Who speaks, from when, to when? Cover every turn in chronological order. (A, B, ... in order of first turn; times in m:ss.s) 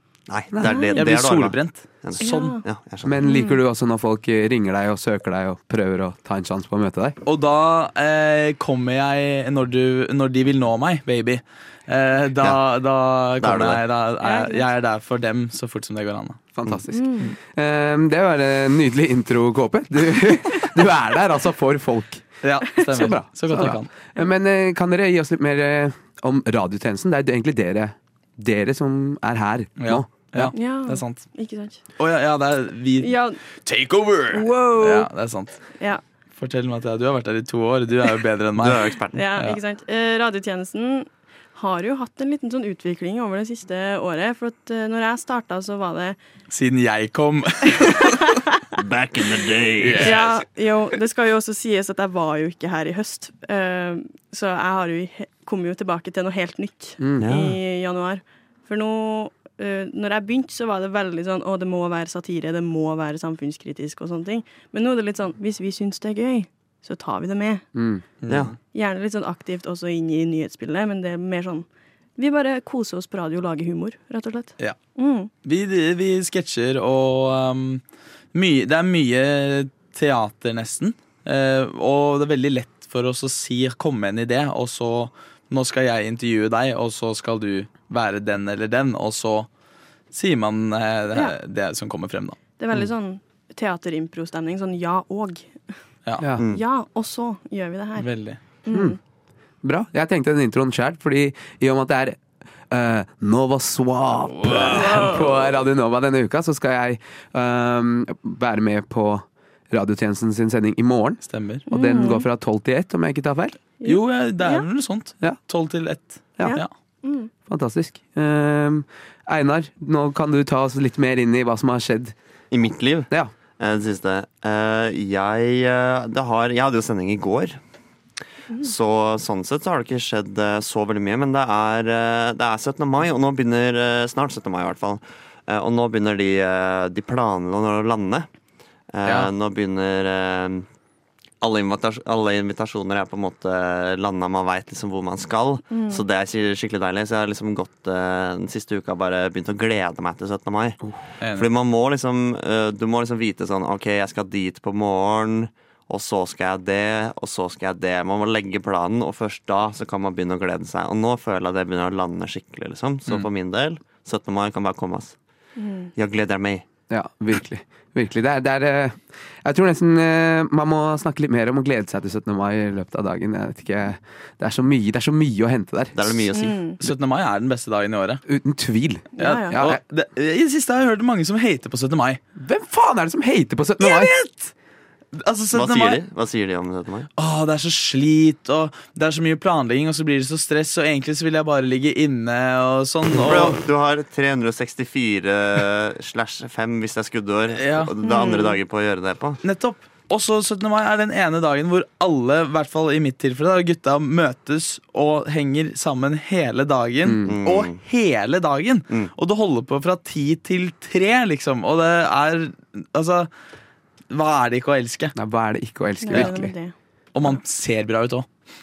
0:00.3-0:03.2 A
0:00.5-0:00.8 B
0:00.6-0:01.0 C
0:01.0-0:02.5 D
0:02.2-0:02.6 C
0:03.0-0:07.2 B
0:03.2-0:03.6 C
0:07.2-0:16.4 D
0:13.4-0:13.8 A
0:14.2-0:14.6 C
0:16.5-0:30.5 B
0:16.9-0:17.3 C
0:22.4-0:23.9 D
0:29.8-0:31.2 D
0:30.5-0:31.8 C
0:32.0-0:35.6 D
0:33.0-0:33.4 C
0:34.3-0:35.1 C
0:36.4-0:39.6 D
0:38.6-0:39.2 A
0:39.1-0:46.2 C
0:46.5-0:48.0 D
0:47.8-0:48.4 C
0:48.7-0:50.2 A
0:49.8-0:50.2 D
0:50.0-1:07.6 C
0:57.0-0:57.3 B
0:57.2-0:57.6 A
1:07.7-1:08.0 B
1:08.2-1:08.5 D
1:08.7-1:11.6 C
1:12.2-1:15.3 C
1:15.4-1:17.8 D
1:18.3-1:29.5 D
1:30.1-1:32.4 D
1:32.6-1:35.6 C
1:36.4-1:36.6 A
1:36.4-1:38.1 C
1:38.0-1:38.4 D
1:38.6-1:39.0 C
1:38.7-1:39.0 B
1:39.6-1:42.2 B
1:42.7-1:53.6 B
1:44.4-1:45.1 D
1:44.7-1:45.2 C
1:51.2-1:51.6 D
1:51.7-1:52.2 C
1:53.8-1:54.6 C
1:53.8-1:56.7 D
1:56.4-1:57.3 C
1:57.4-2:02.1 B
2:02.5-2:07.6 A
2:08.6-2:18.3 A
2:18.9-2:20.6 A
2:19.0-2:19.3 D
2:21.4-2:30.8 A
2:25.7-2:26.0 C
2:31.2-2:31.5 D
2:31.3-2:45.2 A
2:45.6-2:45.9 C
2:46.0-2:46.6 A
2:46.9-2:56.2 B
2:55.9-2:56.6 A
2:56.3-2:56.8 C
2:56.8-2:58.2 D
2:58.3-2:59.8 B
2:59.2-2:59.6 C
2:59.2-3:02.2 D
3:02.4-3:04.1 B
3:03.8-3:04.5 D
3:05.1-3:06.0 D
3:05.5-3:07.1 A
3:07.2-3:13.6 D
3:13.2-3:19.4 A
3:17.6-3:17.9 D
3:18.0-3:18.6 C
3:19.4-3:33.3 D
3:27.0-3:27.4 B
3:27.2-3:27.8 A
3:34.1-3:35.1 D
3:35.2-3:36.5 B
3:36.0-3:36.7 C
3:37.1-3:38.3 D